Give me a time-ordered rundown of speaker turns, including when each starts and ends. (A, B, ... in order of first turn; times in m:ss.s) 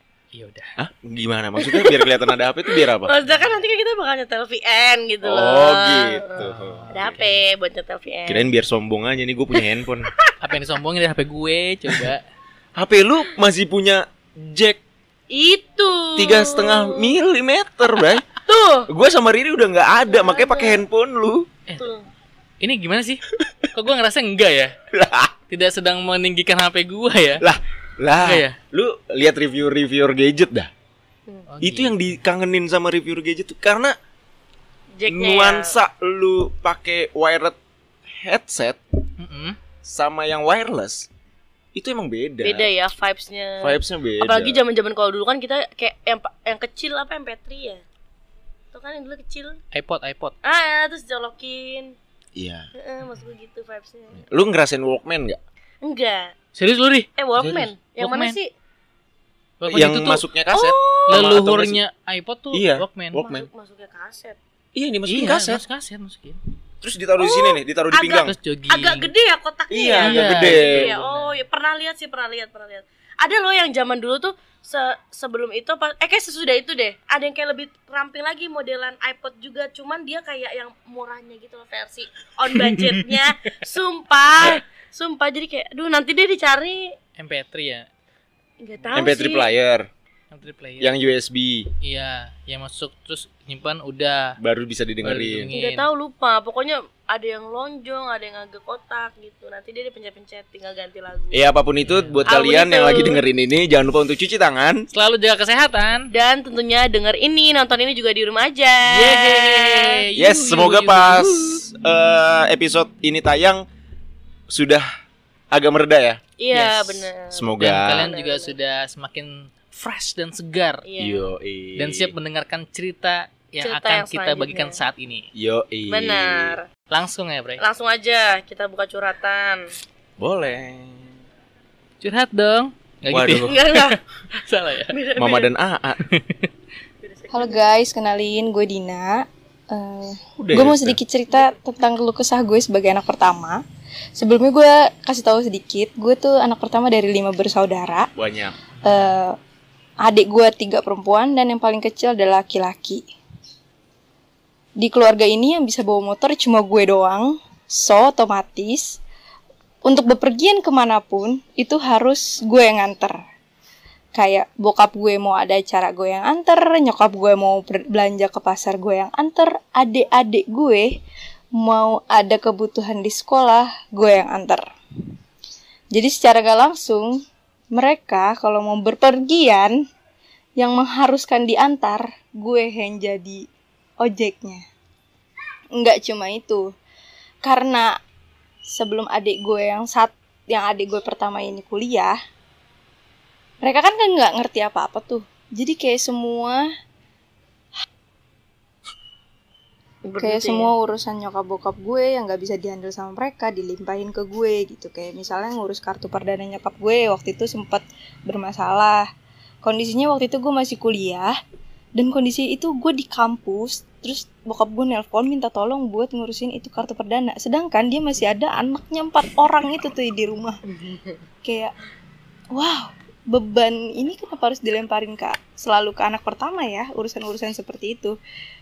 0:00.3-0:00.7 A
0:00.8-0:03.1 B
0:01.6-0:06.4 C
0:05.2-0:06.9 B
0:06.4-0:07.4 A
0:06.9-0:08.5 C
0:08.3-0:10.1 B
0:10.4-0:12.2 A
0:12.8-0:14.8 B
0:15.3-0:17.1 C
0:16.2-0:18.2 B
0:18.4-0:18.9 C
0:18.9-0:21.5 B
0:20.0-0:20.8 C
0:21.7-0:22.1 C
0:22.6-0:23.2 A
0:23.7-0:24.7 A
0:24.9-0:25.3 B
0:25.5-0:27.4 A
0:27.4-0:30.7 B
0:28.2-0:28.5 A
0:31.5-0:32.0 A
0:31.6-0:33.9 B
0:35.0-0:35.7 C
0:35.1-0:37.6 B
0:38.1-0:38.8 B
0:39.2-0:39.6 A
0:39.8-0:41.1 B
0:41.7-0:42.7 B
0:42.4-0:47.8 C
0:43.6-0:44.6 B
0:48.7-0:49.6 C
0:49.7-0:50.3 A
0:50.4-0:52.0 C
0:52.3-0:52.7 B
0:52.7-0:54.2 C
0:54.2-0:55.4 B
0:55.8-0:56.3 C
0:56.5-0:57.1 A
0:57.2-0:58.5 C
0:57.4-0:57.7 B
0:58.0-0:58.4 A
0:59.6-1:00.2 A
0:59.7-1:01.8 B
1:00.5-1:01.4 C
1:01.1-1:03.2 A
1:02.5-1:03.5 B
1:03.1-1:04.4 C
1:04.7-1:05.6 B
1:05.0-1:06.4 A
1:06.8-1:08.3 B
1:07.2-1:26.9 C
1:08.2-1:09.1 A
1:09.7-1:10.9 B
1:10.0-1:11.4 A
1:22.5-1:23.2 A
1:27.2-1:27.9 A
1:28.6-1:29.5 C
1:28.9-1:29.9 B
1:30.3-1:31.0 A
1:30.8-1:31.7 B
1:31.8-1:34.4 A
1:34.4-1:35.5 B
1:35.0-1:35.9 A
1:35.5-1:41.4 C
1:41.3-1:44.9 B
1:41.8-1:42.2 A
1:42.2-1:43.2 C
1:44.9-1:46.1 A
1:46.1-1:50.1 C
1:48.9-1:51.6 A
1:50.2-1:53.6 B
1:54.5-1:54.9 B
1:55.5-1:56.2 B
1:56.4-1:58.5 C
1:56.5-2:00.8 A
1:57.3-1:58.1 B
2:00.8-2:01.3 C
2:01.0-2:02.1 B
2:01.8-2:05.3 A
2:03.6-2:04.8 C
2:05.3-2:06.6 B
2:05.9-2:06.6 C
2:06.9-2:07.6 A
2:07.6-2:09.6 C
2:10.2-2:11.1 B
2:12.0-2:15.0 A
2:13.1-2:13.6 B
2:13.4-2:14.0 C
2:14.9-2:15.5 C
2:15.2-2:16.0 B
2:16.0-2:16.5 A
2:17.0-2:17.6 C
2:17.3-2:23.6 D
2:20.4-2:21.0 B
2:24.2-2:28.1 D
2:28.2-2:28.6 B
2:28.8-2:29.4 D
2:30.0-2:33.0 D
2:34.8-2:39.0 D
2:39.8-2:43.2 D
2:44.1-2:51.0 D
2:51.6-2:54.6 D
2:55.9-2:59.8 D
3:00.6-3:03.4 D
3:04.0-3:04.6 D
3:05.7-3:06.7 D
3:07.4-3:08.0 D
3:08.7-3:12.2 D
3:13.6-3:16.7 D
3:20.0-3:20.7 C
3:20.2-3:29.0 D
3:29.6-3:31.3 D
3:32.0-3:40.6 D
3:40.7-3:41.2 C
3:41.4-3:41.7 D
3:42.5-3:48.2 D